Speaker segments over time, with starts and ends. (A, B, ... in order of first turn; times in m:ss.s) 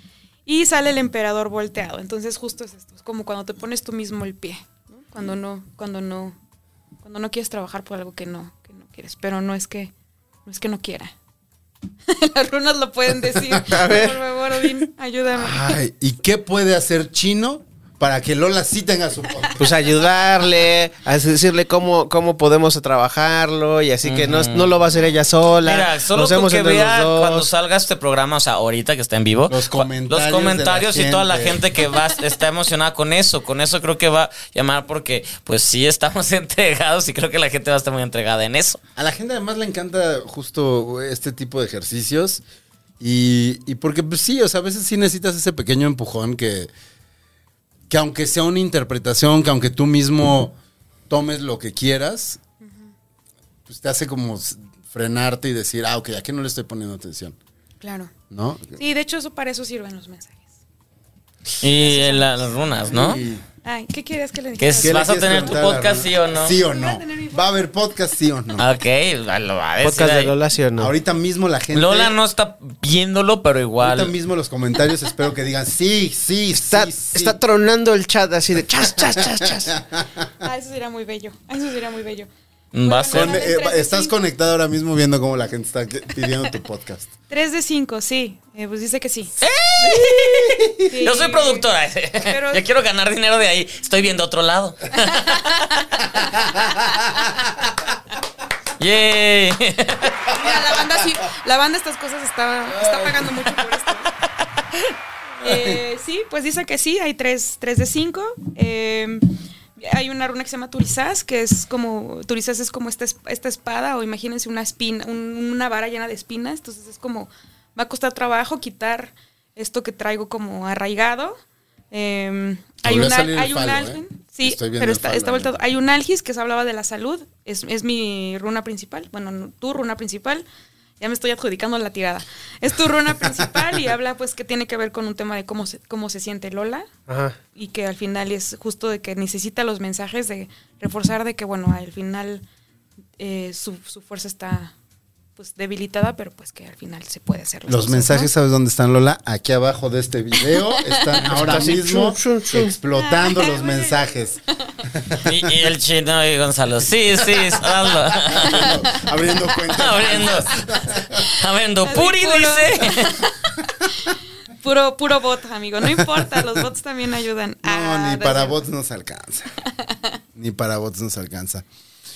0:00.4-0:06.4 A
0:07.0-0:09.9 A
0:10.4-0:11.1 A
0:12.1-0:15.7 A
0:13.3-0:13.6 B
0:13.6-0:14.2 C
0:15.3-0:19.7 B
0:19.6-0:27.5 C
0:24.0-0:24.7 D
0:25.6-0:38.8 D
0:29.5-0:31.7 B
0:39.0-0:42.4 B
0:43.0-0:46.7 B
0:47.9-0:50.6 B
0:51.1-0:52.4 B
0:53.7-0:57.4 B
0:57.8-0:58.1 A
0:58.3-0:58.8 B
0:58.8-1:00.5 A
1:01.6-1:03.2 D
1:01.7-1:02.3 A
1:02.9-1:03.4 B
1:03.6-1:05.7 A
1:04.6-1:06.5 D
1:04.8-1:08.6 B
1:06.5-1:07.6 A
1:08.6-1:10.3 D
1:09.8-1:10.9 C
1:10.8-1:12.1 B
1:11.7-1:14.1 D
1:13.8-1:17.4 B
1:16.5-1:19.7 C
1:19.0-1:20.3 B
1:20.4-1:22.3 A
1:22.7-1:23.4 D
1:22.8-1:24.1 A
1:23.1-1:27.1 B
1:27.3-1:29.3 A
1:29.4-1:35.8 D
1:29.8-1:30.8 B
1:30.8-1:31.7 A
1:32.2-1:32.6 A
1:34.9-1:36.4 A
1:36.3-1:37.3 B
1:38.8-1:40.2 D
1:40.2-1:44.1 A
1:42.7-1:43.3 B
1:45.4-1:49.2 A
1:45.4-1:45.8 B
1:49.8-2:01.4 A
2:01.9-2:10.4 A
2:02.8-2:05.6 B
2:11.0-2:16.9 A
2:17.1-2:17.4 C
2:17.5-2:22.4 A
2:23.2-2:24.7 A
2:25.4-2:28.3 A
2:27.7-2:35.5 B
2:30.4-2:31.2 A
2:31.2-2:32.7 C
2:32.9-2:34.1 A
2:35.2-2:38.8 D
2:38.3-2:41.2 B
2:38.4-2:38.7 A
2:39.6-2:43.2 D
2:41.8-2:48.6 A
2:46.1-2:46.5 B
2:47.6-2:49.5 B
2:50.3-2:51.6 B